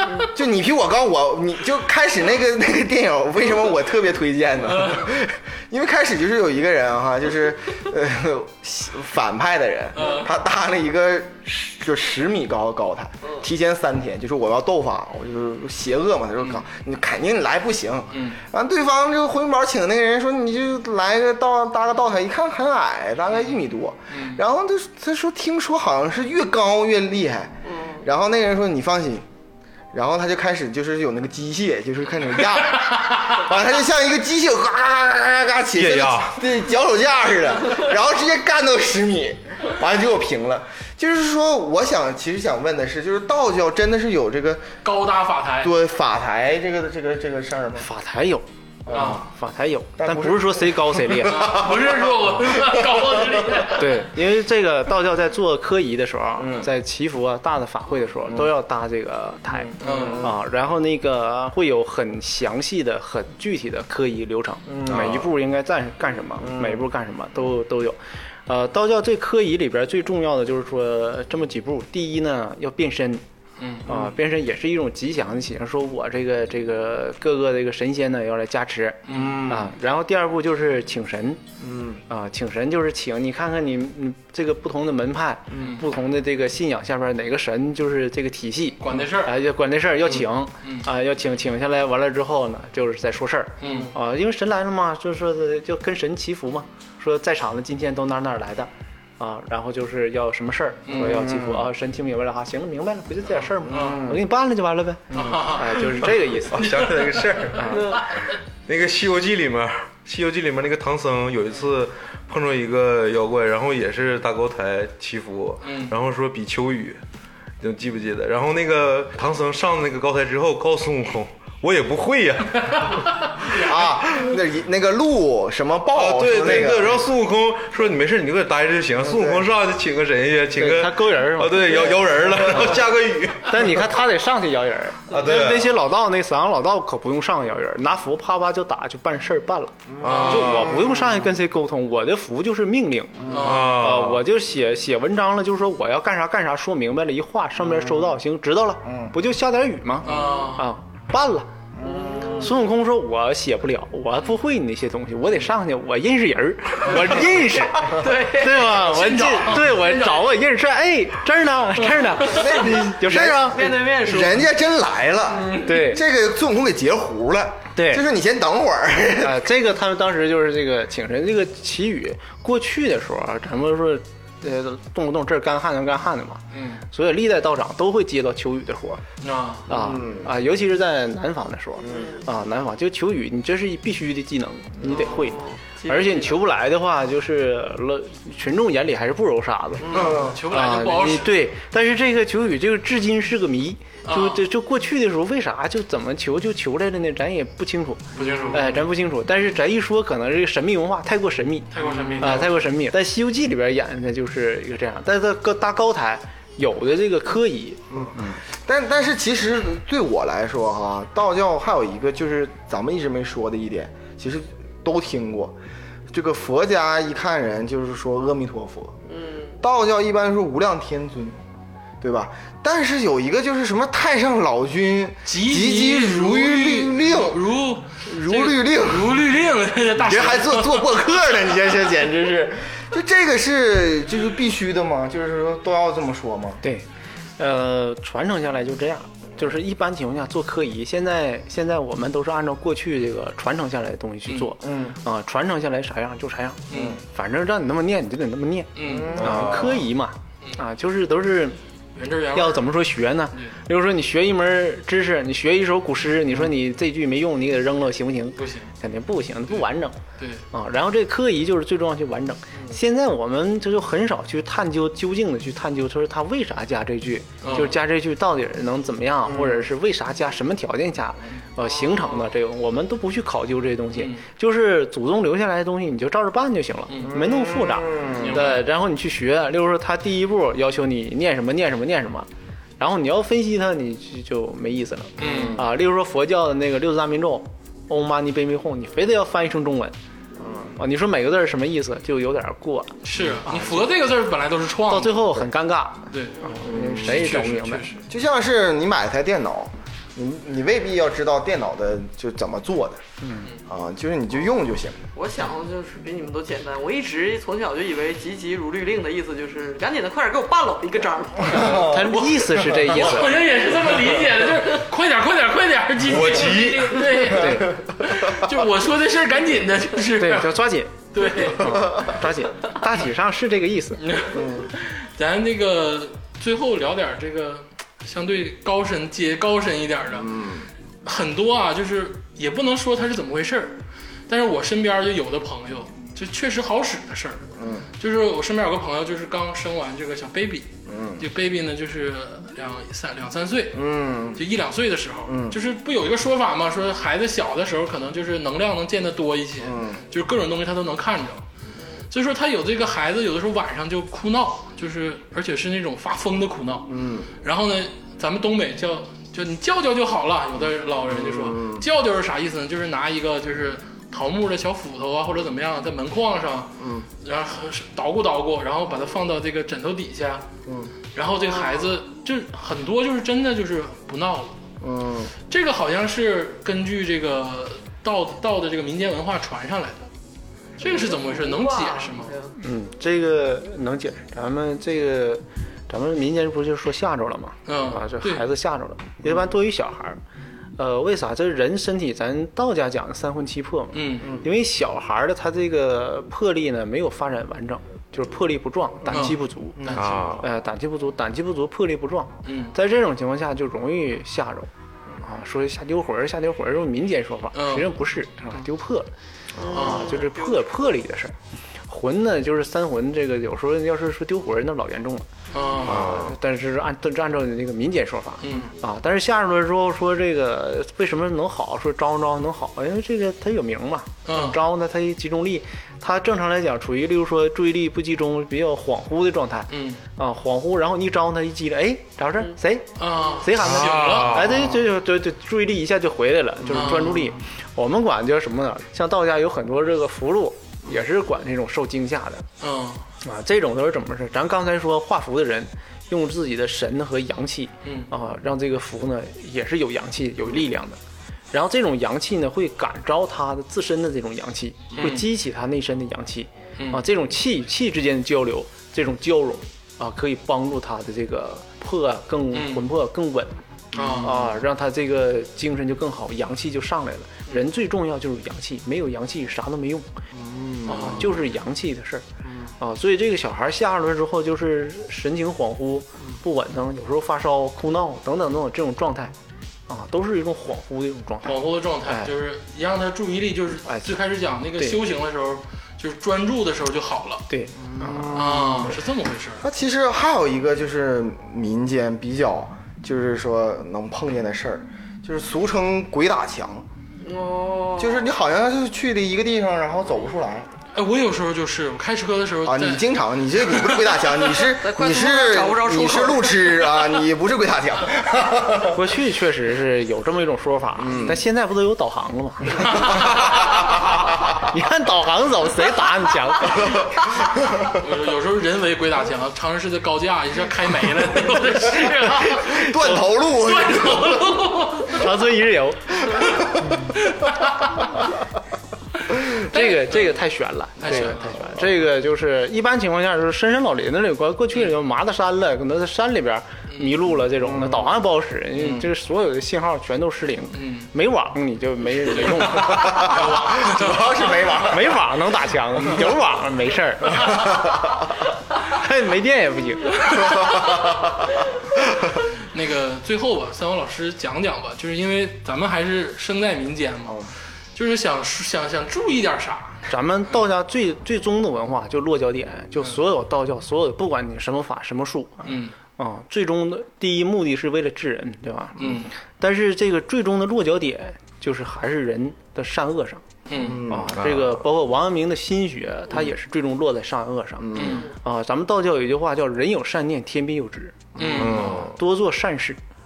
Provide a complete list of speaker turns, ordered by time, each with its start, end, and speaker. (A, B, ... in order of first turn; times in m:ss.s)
0:00.2-0:29.3 A
0:04.7-0:05.1 B
0:10.0-0:10.3 B
0:18.1-0:18.4 B
0:24.1-0:24.4 B
0:27.6-0:28.0 C
0:29.9-0:44.7 A
0:35.8-0:36.4 D
0:44.8-0:45.7 B
0:45.6-0:47.9 A
0:47.8-0:51.5 E
0:48.8-0:49.2 A
0:48.9-0:49.2 B
0:50.0-0:53.2 A
0:51.2-0:54.0 B
0:53.7-1:13.2 E
0:56.4-0:56.7 A
0:59.8-1:00.3 A
0:59.8-1:00.3 B
1:04.7-1:05.1 A
1:06.4-1:06.8 A
1:13.6-1:13.9 B
1:13.9-1:21.4 E
1:19.1-1:19.5 B
1:19.1-1:19.5 A
1:21.6-1:22.0 A
1:22.1-1:46.7 E
1:28.8-1:29.4 B
1:33.6-1:33.9 B
1:40.9-1:41.2 B
1:41.0-1:41.5 A
1:43.7-1:44.1 B
1:43.8-1:44.1 A
1:45.1-1:46.0 B
1:45.2-1:45.4 D
1:46.5-1:48.0 D
1:46.5-1:47.5 B
1:47.6-1:47.9 E
1:47.7-1:48.1 C
1:48.7-1:57.0 D
1:55.6-1:55.9 B
1:57.6-2:03.2 D
2:03.4-2:03.8 B
2:03.5-2:07.0 A
2:05.9-2:13.9 D
2:10.6-2:11.9 E
2:13.5-2:31.5 E
2:15.1-2:15.8 D
2:20.0-2:20.7 D
2:20.0-2:20.7 B
2:23.3-2:23.9 B
2:23.4-2:24.2 D
2:30.0-2:30.7 B
2:31.8-2:32.1 A
2:31.8-2:32.5 C
2:32.4-2:43.6 E
2:37.9-2:38.6 C
2:38.5-2:40.3 B
2:42.3-2:49.5 A
2:43.5-2:44.5 C
2:45.4-2:45.8 C
2:45.6-2:46.0 E
2:47.8-2:48.0 E
2:49.2-2:59.0 E
2:56.5-2:56.8 B
2:59.2-2:59.7 B
2:59.7-3:09.9 E
2:59.7-3:00.3 A
3:01.8-3:02.2 A
3:01.9-3:02.2 C
3:04.8-3:06.4 C
3:09.9-3:10.4 A
3:09.9-3:11.4 B
3:10.5-3:28.4 E
3:14.0-3:14.4 B
3:18.2-3:18.8 B
3:21.7-3:22.6 B
3:21.8-3:22.4 A
3:27.9-3:35.6 A
3:36.1-3:39.0 A
3:39.1-3:39.6 C
3:39.6-3:41.4 A
3:42.0-3:47.4 A
3:45.3-3:51.0 B
3:48.0-3:49.2 A
3:49.9-3:56.6 A
3:57.4-4:11.6 E
4:04.3-4:04.5 B
4:04.6-4:05.0 A
4:06.7-4:07.0 B
4:06.7-4:07.0 A
4:08.8-4:09.2 B
4:08.8-4:09.7 A
4:12.0-4:12.7 B
4:12.3-4:20.0 E
4:18.4-4:18.7 B
4:20.2-4:20.4 B
4:20.5-4:50.0 E
4:27.4-4:27.8 B
4:29.3-4:29.6 A
4:31.8-4:32.2 C
4:36.9-4:37.2 B
4:37.1-4:38.4 A
4:38.1-4:38.6 B
4:45.2-4:45.6 B
4:45.2-4:45.6 A
4:50.4-4:50.7 A
4:50.8-4:53.9 E
4:53.0-4:55.5 B
4:54.9-4:57.9 E
4:56.1-4:58.0 B
4:56.6-4:57.2 A
4:58.1-5:03.0 A
5:03.2-5:03.5 E
5:03.7-5:05.0 A
5:05.1-5:12.0 C
5:11.5-5:12.1 A
5:11.6-5:13.4 E
5:11.8-5:20.6 B
5:16.0-5:17.3 D
5:17.3-5:17.8 E
5:20.2-5:24.1 E
5:21.1-5:22.1 B
5:24.0-5:30.3 B
5:24.3-5:24.7 A
5:30.2-5:30.7 A
5:31.0-5:51.4 B
5:37.6-5:37.9 A
5:40.9-5:41.2 A
5:43.7-5:44.4 A
5:45.3-5:45.6 A
5:49.6-5:50.0 A
5:52.1-6:10.4 B
5:56.9-5:57.3 A
6:01.3-6:01.9 A
6:06.8-6:07.1 A
6:10.7-6:10.9 A
6:11.1-6:14.6 B
6:14.8-6:15.3 A
6:15.5-6:20.1 B
6:20.8-6:21.1 A
6:20.8-6:22.4 B
6:21.0-6:22.5 C
6:22.6-6:30.2 E
6:27.7-6:28.5 B
6:30.8-6:44.7 E
6:33.9-6:34.4 B
6:39.1-6:40.4 B
6:39.8-6:40.0 A
6:39.9-6:40.5 D
6:42.4-6:42.7 B
6:45.2-6:49.1 E
6:47.6-6:47.9 B
6:49.6-6:50.7 C
6:49.7-6:51.3 E
6:49.7-6:50.2 B
6:51.9-6:55.3 E
6:55.5-6:56.2 B
6:55.8-6:56.4 D
6:55.9-7:12.9 E
6:58.4-6:58.7 B
7:04.3-7:04.6 B
7:09.7-7:10.0 B
7:13.0-7:14.4 B
7:13.4-7:22.5 E
7:13.6-7:14.9 D
7:16.7-7:17.3 B
7:22.6-7:23.0 B
7:23.2-7:31.0 E
7:27.8-7:28.1 B
7:31.5-7:43.6 E
7:34.9-7:35.3 B
7:36.8-7:37.0 B
7:42.5-7:42.9 B
7:43.9-7:44.4 B
7:44.2-7:50.1 E
7:50.4-7:51.2 A
7:50.9-7:51.3 B
7:51.0-7:52.3 E
7:52.8-7:59.3 E
7:59.9-8:02.3 E
8:01.4-8:07.5 B
8:03.9-8:04.2 E
8:07.5-8:08.6 E
8:07.8-8:08.9 A
8:08.3-8:09.6 B
8:09.6-8:16.9 A
8:17.2-8:18.3 C
8:18.0-8:20.7 A
8:20.9-8:24.6 B
8:22.6-8:29.0 A
8:24.8-8:26.8 C
8:28.9-8:33.5 E
8:31.0-8:31.4 A
8:32.8-8:33.5 B
8:34.6-8:37.1 E
8:37.8-8:45.2 B
8:42.2-8:44.8 A
8:45.0-8:46.3 E
8:47.2-8:48.3 B
8:49.5-8:50.5 B
8:49.6-9:03.4 E
8:51.0-8:51.8 B
8:57.8-8:58.0 A
8:58.8-8:59.1 B
9:00.7-9:01.1 B
9:02.3-9:04.7 B
9:03.1-9:05.2 A
9:04.8-9:07.5 E
9:08.9-9:10.5 E
9:12.6-9:20.0 B
9:20.1-9:33.4 E
9:25.6-9:26.0 B
9:29.0-9:29.3 B
9:33.7-9:34.0 B
9:33.8-9:34.3 A
9:34.0-9:43.0 E
9:34.3-9:34.8 D
9:37.8-9:38.2 A
9:38.0-9:38.3 B
9:38.0-9:38.3 C
9:41.4-9:42.0 B
9:41.4-9:42.2 D